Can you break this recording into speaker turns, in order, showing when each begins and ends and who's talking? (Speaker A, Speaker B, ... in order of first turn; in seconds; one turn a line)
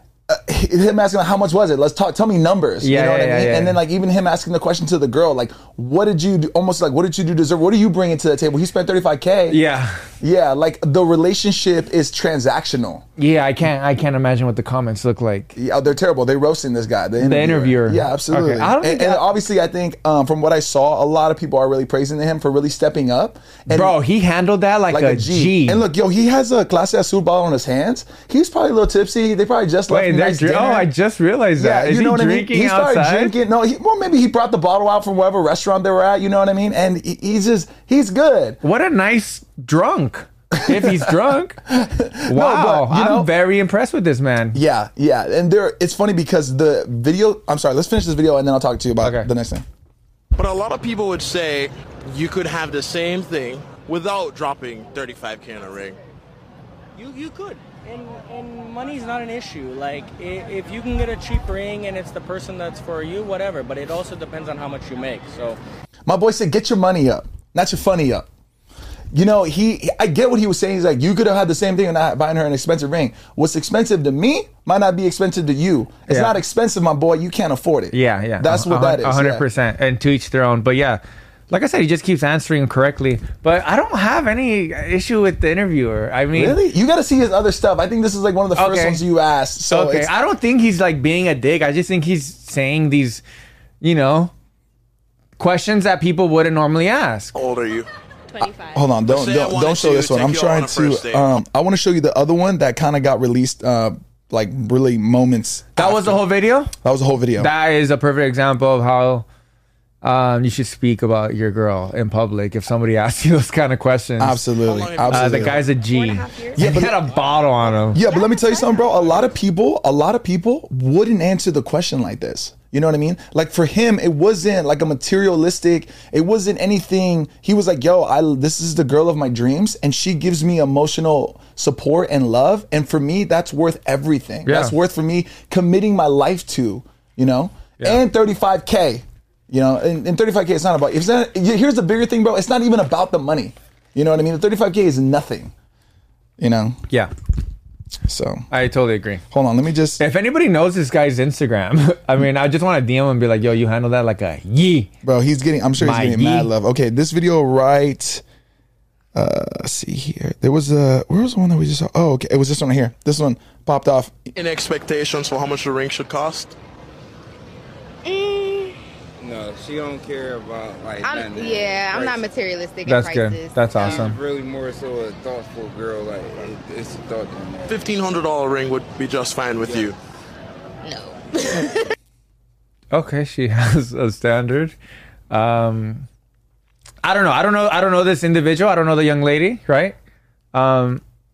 Speaker A: 0.3-9.6
Speaker B: 2.8-3.8
Speaker B: 9.5-10.0
Speaker A: 10.2-13.0
Speaker B: 13.2-15.5
Speaker A: 15.5-23.9
Speaker B: 17.2-19.3
Speaker B: 23.7-25.8
Speaker A: 24.9-30.9
Speaker B: 29.9-33.3
Speaker A: 31.6-38.6
Speaker B: 38.6-41.6
Speaker A: 40.5-43.3
Speaker B: 42.3-44.6
Speaker A: 44.5-49.6
Speaker B: 49.0-49.3
Speaker C: 50.4-56.0
Speaker D: 56.9-65.6
Speaker A: 66.1-68.3
Speaker A: 69.1-79.4
Speaker B: 76.1-76.4
Speaker B: 77.9-86.6
Speaker A: 86.3-90.1
Speaker B: 88.5-89.0
Speaker B: 89.7-93.2
Speaker B: 93.8-94.3
Speaker B: 95.4-97.3
Speaker C: 97.3-97.9
Speaker E: 98.3-98.6
Speaker A: 98.6-107.5
Speaker C: 99.0-101.3
Speaker B: 105.8-106.7
Speaker B: 107.3-109.3
Speaker B: 110.0-114.4
Speaker A: 114.2-115.6
Speaker C: 114.6-115.7
Speaker B: 115.1-118.0
Speaker E: 115.8-116.8
Speaker A: 116.5-117.1
Speaker A: 117.9-145.5
Speaker E: 118.0-119.1
Speaker B: 134.4-134.7
Speaker A: 146.4-146.8
Speaker A: 148.0-148.4
Speaker B: 148.5-149.2
Speaker A: 149.3-150.0
Speaker B: 150.0-154.9
Speaker A: 155.0-158.2
Speaker B: 155.8-156.5
Speaker A: 159.1-164.3
Speaker C: 164.3-166.5
Speaker F: 168.0-168.7
Speaker G: 169.2-172.3
Speaker F: 171.0-174.1
Speaker B: 172.8-174.2
Speaker G: 173.8-177.9
Speaker C: 177.7-179.9
Speaker G: 179.6-179.9
Speaker F: 180.8-181.8
Speaker B: 182.9-184.7
Speaker B: 185.3-186.1
Speaker B: 187.0-189.9
Speaker B: 190.5-191.0